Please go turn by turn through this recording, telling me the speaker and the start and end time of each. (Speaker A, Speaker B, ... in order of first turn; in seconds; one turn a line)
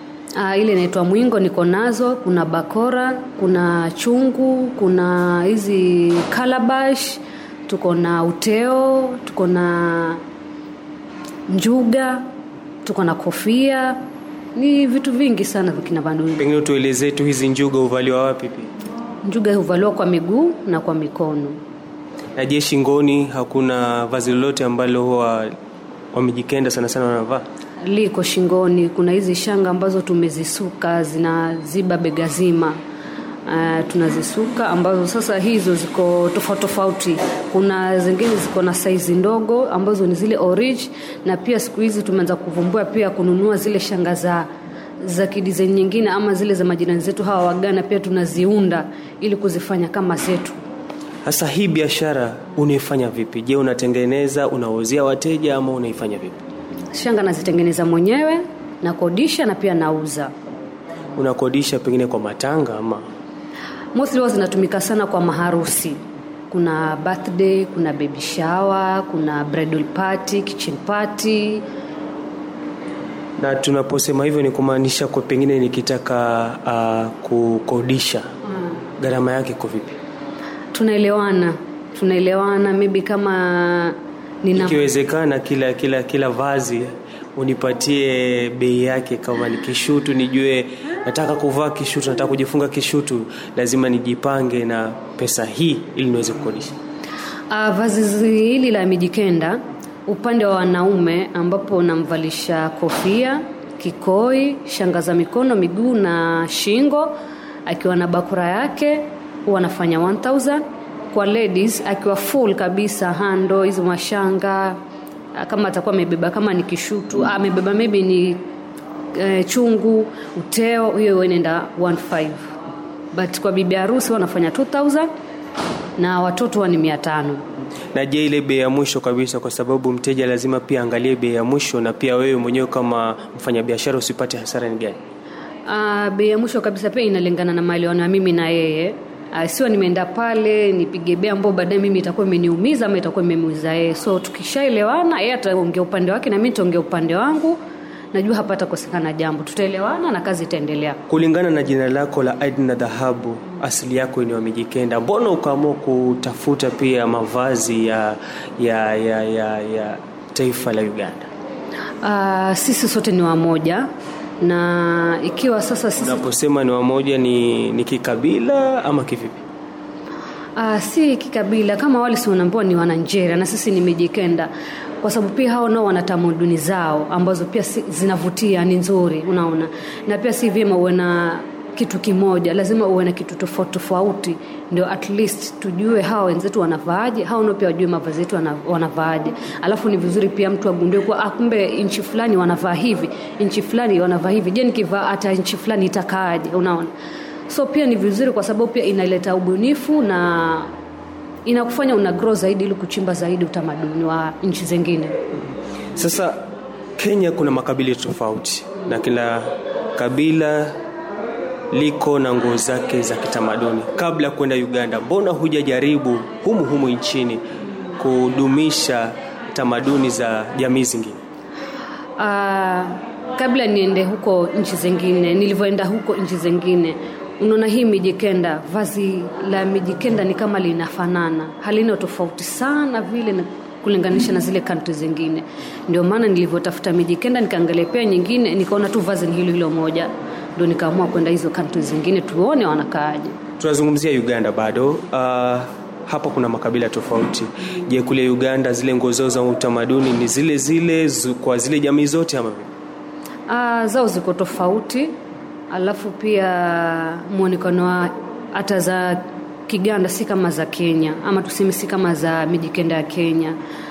Speaker A: 0.3-10.2
Speaker A: 11.5-12.2
Speaker A: 12.8-14.0
Speaker A: 14.5-16.4
Speaker B: 16.4-18.7
Speaker A: 19.2-21.6
Speaker B: 22.4-25.5
Speaker B: 26.1-27.4
Speaker A: 27.8-32.8
Speaker A: 33.5-44.5
Speaker A: 45.0-50.6
Speaker B: 51.2-56.4
Speaker A: 56.9-60.3
Speaker B: 61.1-63.0
Speaker A: 63.9-66.0
Speaker A: 66.5-71.6
Speaker B: 73.4-78.2
Speaker B: 79.0-80.0
Speaker A: 80.7-84.8
Speaker B: 84.5-96.7
Speaker A: 97.5-107.1
Speaker A: 107.7-114.8
Speaker A: 115.3-118.4
Speaker A: 119.1-122.4
Speaker A: 123.1-125.1
Speaker A: 126.0-127.4
Speaker B: 127.9-135.0
Speaker A: 135.7-147.6
Speaker A: 148.1-151.0
Speaker B: 151.1-161.3
Speaker A: 162.0-163.9
Speaker A: 164.4-166.2
Speaker B: 166.0-169.4
Speaker A: 170.6-174.5
Speaker A: 175.0-196.9
Speaker A: 197.5-200.7
Speaker A: 201.4-205.2
Speaker B: 205.9-206.4
Speaker B: 207.0-210.7
Speaker B: 211.7-217.4
Speaker B: 218.0-221.2
Speaker A: 222.2-243.3
Speaker B: 243.6-252.7
Speaker A: 253.5-255.1
Speaker A: 255.7-263.5